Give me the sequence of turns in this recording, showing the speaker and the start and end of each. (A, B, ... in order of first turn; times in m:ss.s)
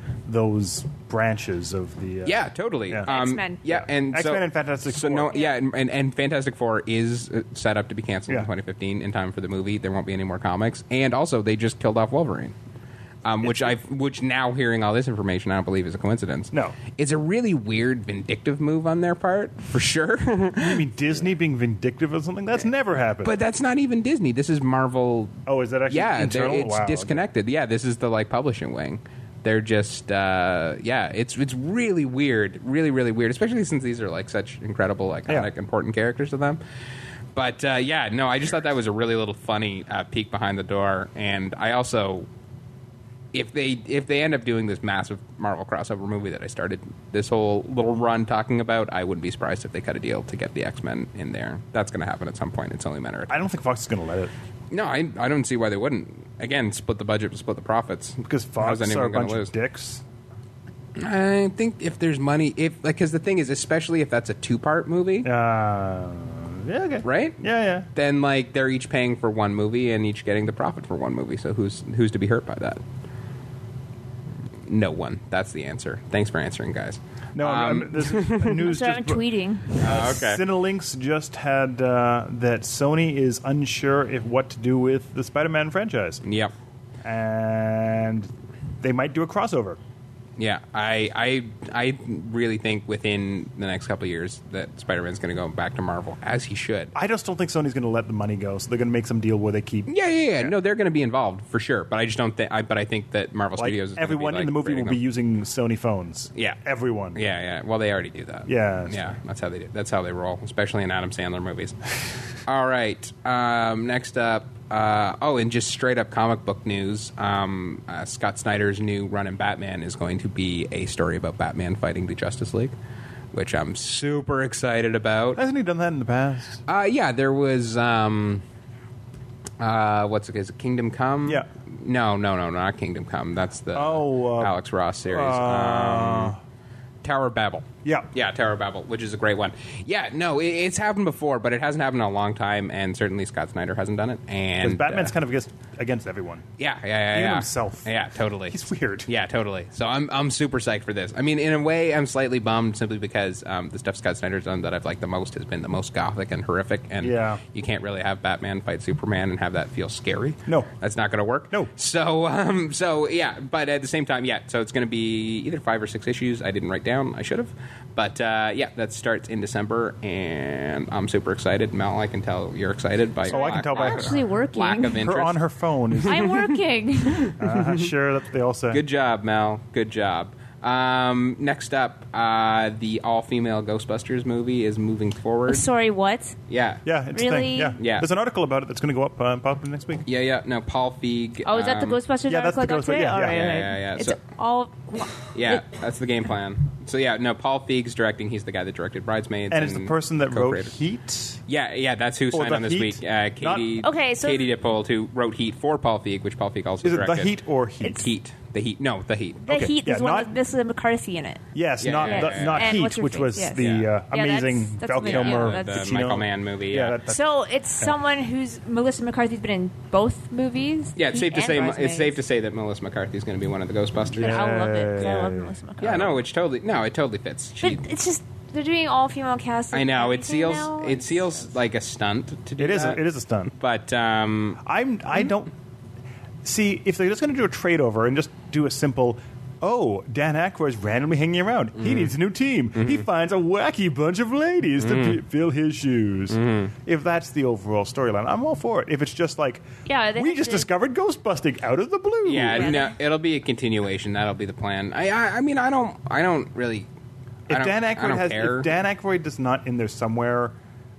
0:00.2-0:03.1 A
0:02.2-0:12.5 B
0:03.1-0:03.6 C
0:03.7-0:05.4 A
0:13.2-0:20.9 B
0:13.4-0:13.7 A
0:16.5-0:16.8 A
0:20.6-0:23.3 A
0:23.2-0:36.6 B
0:25.4-0:27.2 A
0:37.3-0:42.3 B
0:43.3-0:53.4 B
0:53.3-0:54.3 A
0:54.7-0:59.5 B
0:58.2-1:00.0 A
1:01.0-1:05.3 B
1:05.2-1:07.9 A
1:07.0-1:07.4 B
1:07.9-1:12.8 B
1:14.6-1:18.6 B
1:17.3-1:19.2 A
1:18.6-1:19.8 C
1:19.8-1:26.2 A
1:19.8-1:20.4 B
1:26.2-1:26.5 B
1:27.0-1:29.8 A
1:30.4-1:36.9 B
1:36.9-1:40.5 A
1:39.9-1:45.0 B
1:43.6-1:47.2 A
1:47.1-1:51.8 B
1:48.5-1:49.0 A
1:52.4-2:02.7 B
2:03.3-2:05.4 B
2:05.3-2:06.6 A
2:06.7-2:08.4 B
2:09.6-2:16.3 B
2:13.7-2:14.6 A
2:15.1-2:16.4 A
2:17.0-2:25.1 B
2:17.8-2:18.1 A
2:24.6-2:26.4 A
2:26.6-2:55.4 B
2:27.1-2:27.9 A
2:28.5-2:29.1 A
2:37.0-2:37.4 A
2:53.3-2:54.2 A
2:53.3-2:55.1 C
2:54.9-2:56.2 A
2:55.9-2:56.6 B
2:56.0-2:57.4 C
2:57.2-2:57.9 B
2:57.4-2:58.8 A
2:58.7-3:05.7 B
3:05.5-3:06.4 C
3:06.5-3:06.8 B
3:06.8-3:10.0 A
3:07.1-3:07.8 C
3:07.8-3:08.1 B
3:10.1-3:12.0 B
3:11.4-3:15.6 C
3:12.3-3:13.6 A
3:13.1-3:14.2 B
3:15.3-3:20.7 B
3:19.5-3:21.4 A
3:21.5-3:29.5 B
3:22.3-3:23.7 A
3:23.8-3:24.5 C
3:26.8-3:28.0 A
3:29.4-3:31.4 C
3:29.5-3:30.3 A
3:31.5-3:37.2 A
3:31.8-3:32.8 B
3:32.0-3:35.9 C
3:33.6-3:33.9 B
3:35.0-3:37.0 B
3:37.0-3:42.2 C
3:41.0-3:44.4 B
3:44.1-3:45.5 A
3:44.2-3:46.2 C
3:45.8-3:47.9 B
3:47.6-3:51.3 C
3:49.7-3:54.6 B
3:52.6-3:53.5 A
3:54.6-3:55.5 A
3:56.4-4:12.8 A
4:01.8-4:02.1 B
4:02.8-4:03.0 B
4:04.8-4:05.2 B
4:06.3-4:06.7 B
4:09.8-4:10.7 C
4:12.2-4:16.9 B
4:12.5-4:12.9 C
4:17.5-4:20.6 A
4:17.5-4:18.7 B